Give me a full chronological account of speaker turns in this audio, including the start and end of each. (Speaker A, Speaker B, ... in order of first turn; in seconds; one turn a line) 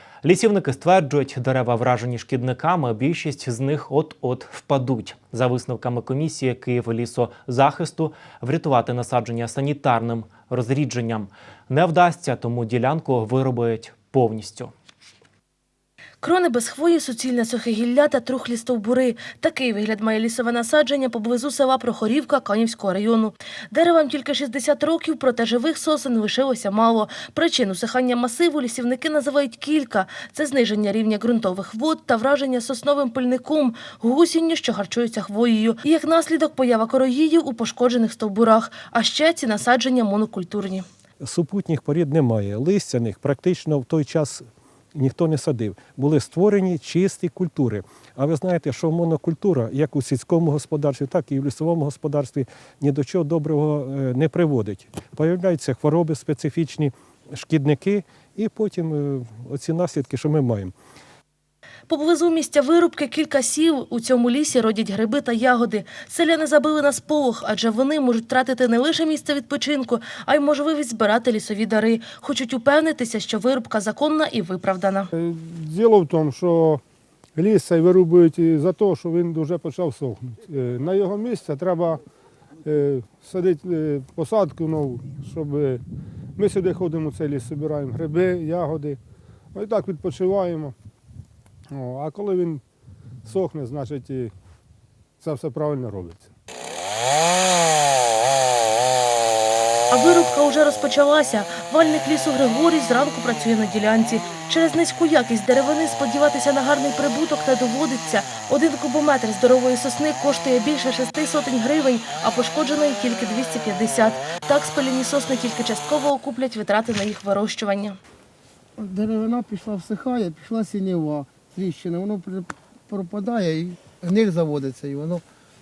Speaker A: 0.2-14.7
Speaker B: 16.2-40.8
Speaker C: 41.2-60.7
Speaker B: 61.9-75.1
Speaker D: 75.1-76.8
Speaker D: 77.3-82.0
Speaker D: 82.6-85.8
Speaker D: 86.3-89.0
Speaker D: 89.5-90.7
Speaker D: 91.7-92.6
Speaker D: 93.2-94.3
Speaker D: 95.2-96.3
Speaker B: 99.9-118.0
Speaker E: 118.8-125.2